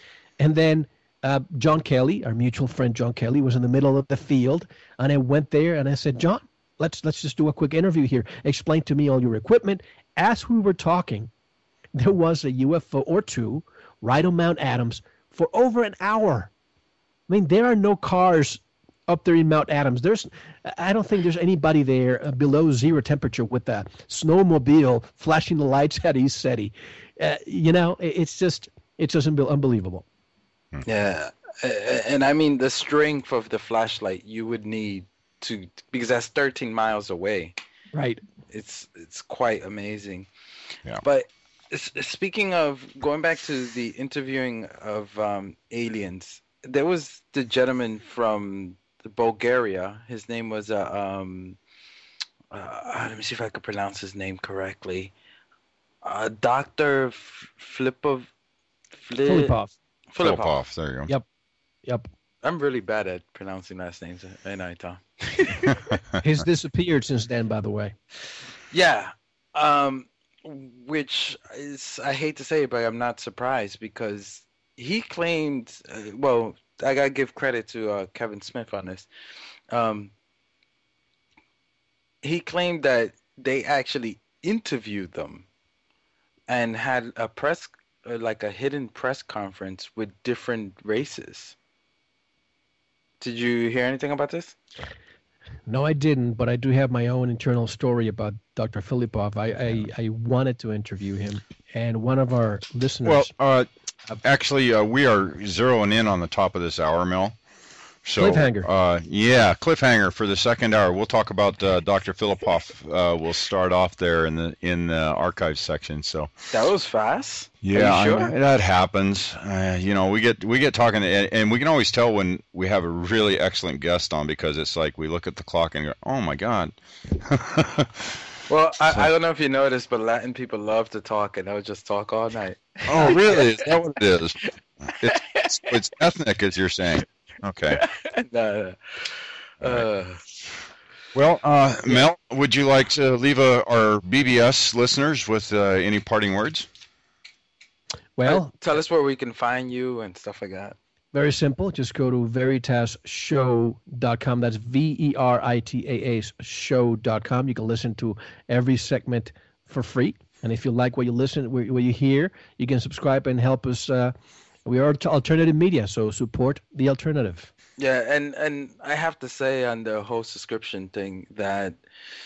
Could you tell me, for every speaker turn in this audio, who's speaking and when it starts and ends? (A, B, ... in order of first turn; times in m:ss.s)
0:00.4-0:11.3 A
0:12.0-0:16.5 A
0:17.3-0:30.0 A
0:30.8-0:37.6 B
0:37.9-0:38.2 A
0:38.5-0:40.3 B
0:41.0-0:51.6 B
0:52.5-0:55.1 B
0:56.0-0:58.3 B
0:59.0-0:59.6 B
0:59.2-0:59.7 A
1:00.1-1:00.6 B
1:00.2-1:01.1 C
1:02.4-1:05.8 B
1:06.2-1:07.9 A
1:08.7-1:19.1 B
1:19.7-1:20.1 B
1:22.2-1:25.5 B
1:26.5-1:31.6 B
1:33.2-1:34.6 B
1:35.7-1:43.3 A
1:43.0-1:43.7 C
1:44.2-1:47.4 C
1:48.0-1:56.3 C
1:48.2-1:48.7 A
1:56.5-1:58.3 B
1:57.6-2:08.2 C
2:08.5-2:13.7 B
2:12.9-2:17.8 C
2:15.0-2:15.8 B
2:17.7-2:20.2 B
2:19.6-2:19.9 C
2:21.2-2:26.7 C
2:28.2-2:28.5 A
2:28.3-2:30.8 B
2:31.1-2:44.2 A
2:44.7-2:47.5 A
2:47.8-2:51.8 B